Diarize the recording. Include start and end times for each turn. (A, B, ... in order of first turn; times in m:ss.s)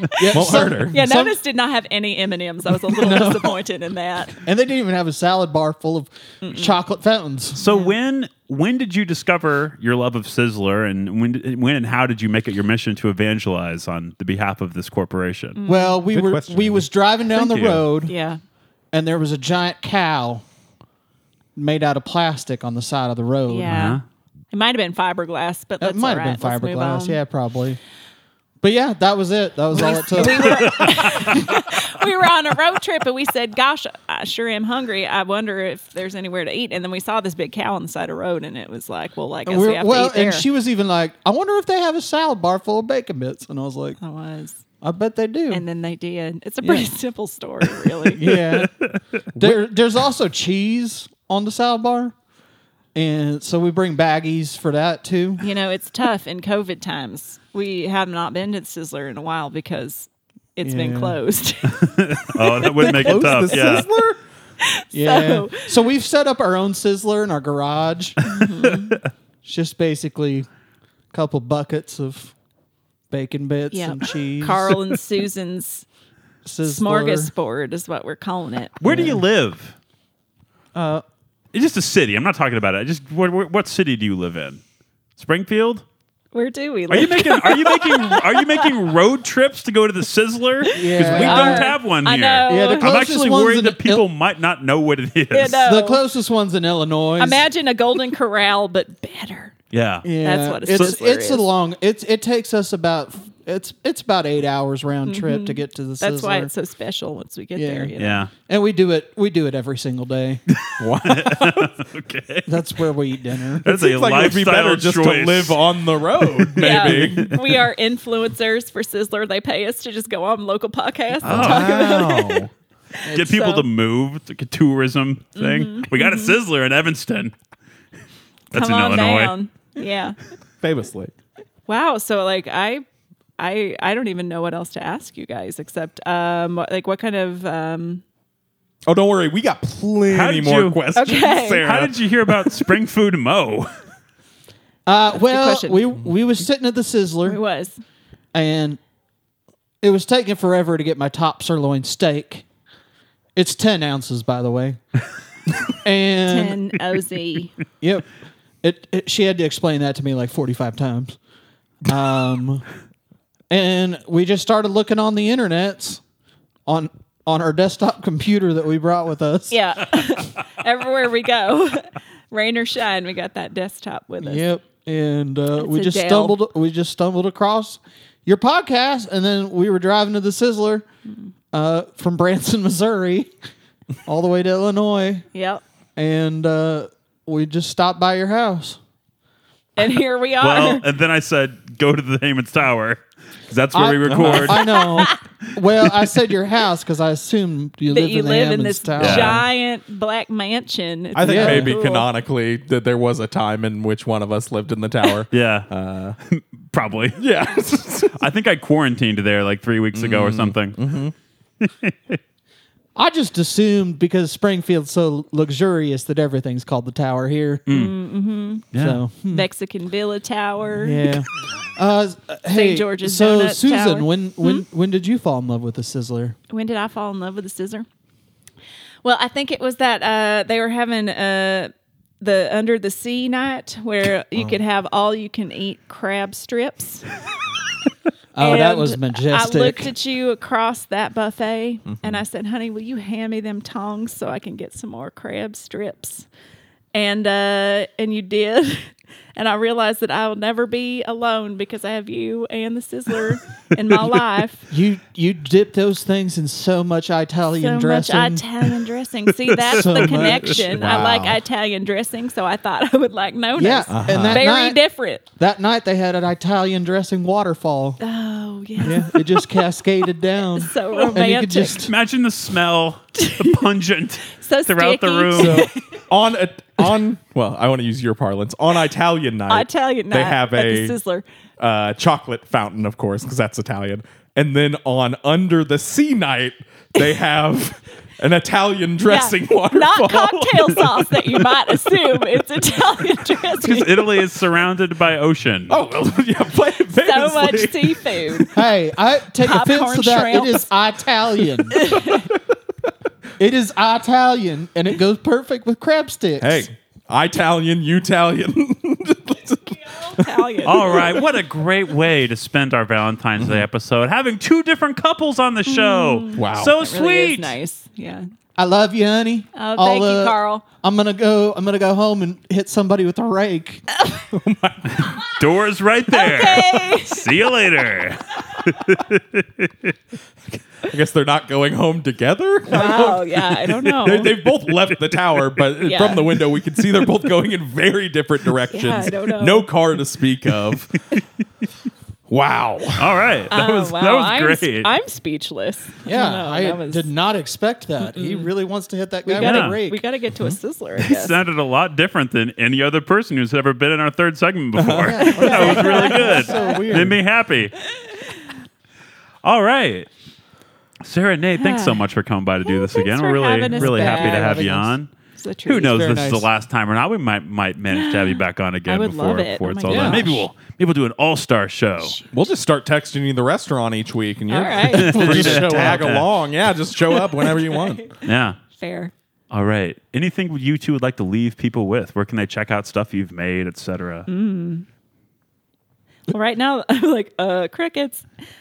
0:00.1-0:04.4 A
0:00.2-0:01.4 B
0:00.3-0:01.0 C
0:02.9-0:03.6 B
0:04.4-0:07.6 B
0:06.4-0:06.7 A
0:07.6-0:15.6 D
0:07.6-0:07.9 A
0:15.5-0:16.0 A
0:15.6-0:18.1 B
0:16.1-0:16.8 C
0:17.3-0:17.8 D
0:18.0-0:18.4 A
0:18.9-0:20.4 B
0:21.6-0:23.7 B
0:23.5-0:24.0 A
0:23.7-0:24.0 D
0:24.5-0:27.2 A
0:25.8-0:27.8 B
0:28.6-0:30.8 B
0:29.7-0:40.5 A
0:30.4-0:31.6 D
0:39.4-0:44.0 B
0:44.0-0:44.6 A
0:44.8-0:45.6 B
0:45.5-0:48.2 A
0:46.6-0:46.9 B
0:48.1-0:48.7 B
0:48.3-0:49.5 D
0:49.3-0:52.1 B
0:52.9-0:55.4 B
0:55.4-1:03.8 A
1:00.6-1:01.2 B
1:01.7-1:03.9 D
1:02.8-1:04.2 C
1:04.6-1:05.7 A
1:04.9-1:08.2 B
1:08.2-1:09.0 A
1:08.4-1:09.0 D
1:09.4-1:10.5 B
1:11.1-1:12.3 B
1:13.1-1:14.8 B
1:13.7-1:15.8 A
1:16.4-1:17.3 B
1:16.6-1:18.8 A
1:18.8-1:19.7 D
1:18.8-1:19.2 B
1:20.7-1:21.0 B
1:21.5-1:24.6 D
1:25.2-1:25.8 D
1:26.3-1:28.8 A
1:26.9-1:35.7 D
1:30.6-1:32.9 A
1:30.7-1:31.7 B
1:32.4-1:34.0 B
1:35.3-1:36.0 A
1:35.6-1:37.4 B
1:37.2-1:39.5 A
1:39.7-1:40.1 D
1:40.0-1:46.5 B
1:40.2-1:41.5 A
1:45.0-1:48.3 A
1:47.5-1:50.4 B
1:48.0-1:48.3 D
1:50.5-1:52.6 D
1:50.8-1:51.7 C
1:52.4-1:53.6 B
1:53.6-1:55.6 D
1:53.6-1:57.4 C
1:56.2-1:57.2 D
1:56.6-2:02.5 A
2:01.2-2:01.9 D
2:01.2-2:02.5 C
2:03.0-2:03.6 A
2:03.0-2:07.3 D
2:05.4-2:06.4 A
2:08.5-2:09.3 D
2:08.5-2:10.2 A
2:10.6-2:11.1 C
2:11.7-2:12.8 A
2:13.4-2:18.0 A
2:18.8-2:22.5 C
2:20.1-2:23.7 D
2:20.9-2:21.6 A
2:24.8-2:27.4 B
2:25.2-2:25.9 A
2:27.2-2:27.8 A
2:28.3-2:28.8 B
2:29.8-2:32.4 B
2:33.4-2:34.8 B
2:35.8-2:36.6 B
2:36.3-2:37.5 A
2:37.8-2:38.1 B
2:38.6-2:41.2 B
2:41.8-2:42.6 B
2:43.5-2:46.0 B
2:46.6-2:49.6 B
2:49.5-2:54.4 A
2:54.2-3:00.9 B
2:55.5-2:56.4 A
3:01.5-3:03.3 B
3:04.0-3:05.2 B
3:05.3-3:05.6 A
3:06.0-3:08.8 B
3:09.8-3:10.8 A
3:10.4-3:14.9 D
3:13.7-3:19.4 B
3:14.1-3:14.6 C
3:14.7-3:15.2 A
3:17.9-3:22.1 A
3:19.0-3:19.4 D
3:21.1-3:26.2 C
3:21.2-3:21.8 B
3:25.3-3:25.7 D
3:26.3-3:30.8 D
3:27.2-3:28.2 C
3:29.9-3:31.1 C
3:31.6-3:32.2 D
3:33.0-3:37.7 B
3:37.7-3:37.9 D
3:37.7-3:38.7 A
3:38.7-3:39.0 D
3:38.7-3:39.5 B
3:39.3-3:41.1 A
3:40.8-3:46.4 B
3:42.5-3:44.6 A
3:46.5-3:47.8 A
3:49.0-3:57.0 A
3:58.3-3:59.9 B
3:58.4-4:06.3 A
4:01.9-4:02.2 C
4:06.9-4:14.7 A
4:14.7-4:18.7 B
4:17.6-4:25.2 A
4:19.7-4:21.0 B
4:19.7-4:20.3 D
4:20.5-4:21.4 C
4:23.6-4:24.8 B
4:23.9-4:24.5 C
4:25.3-4:28.0 B
4:28.0-4:29.6 A
4:28.8-4:31.9 B
4:30.5-4:31.9 A
4:31.8-4:35.7 D
4:33.2-4:33.6 A
4:34.3-4:36.0 A
4:35.3-4:41.0 C
4:39.5-4:41.2 A
4:41.6-4:51.0 C
4:49.1-4:54.2 A
4:53.6-4:55.8 D
4:55.7-4:58.4 C
4:56.9-4:58.6 A
4:58.5-5:01.8 B
4:59.4-5:00.6 A
5:01.7-5:02.3 A
5:03.4-5:06.7 B
5:06.4-5:11.2 C
5:10.0-5:11.1 A
5:10.6-5:17.5 D
5:15.6-5:18.3 A
5:16.4-5:16.7 C
5:18.6-5:23.8 B
5:19.5-5:20.6 A
5:24.3-5:24.8 C
5:24.9-5:29.9 D
5:26.1-5:27.5 A
5:30.8-5:41.0 C
5:32.7-5:34.4 A
5:35.8-5:36.4 A
5:38.7-5:39.7 A
5:42.3-5:43.3 C
5:43.0-5:44.9 D
5:43.5-5:47.1 A
5:46.0-5:50.0 B
5:48.0-5:48.5 A
5:49.2-5:51.3 A
5:49.4-5:49.8 D
5:51.0-5:57.8 D
5:54.7-5:55.7 C
5:54.9-5:57.2 B
5:55.2-5:56.8 A
5:59.4-6:00.1 D
6:01.0-6:05.1 D
6:01.6-6:02.0 A
6:02.6-6:04.7 A
6:03.7-6:04.9 B
6:05.3-6:06.1 A
6:05.6-6:12.2 D
6:05.8-6:06.5 B
6:07.9-6:10.5 A
6:09.9-6:10.2 C
6:12.0-6:12.3 A
6:12.3-6:18.0 C
6:14.5-6:15.6 A
6:14.9-6:16.3 D
6:15.3-6:16.0 B
6:17.5-6:17.8 A
6:18.2-6:18.6 D
6:18.8-6:19.1 A
6:19.5-6:24.3 D
6:24.3-6:24.8 A
6:26.3-6:28.3 A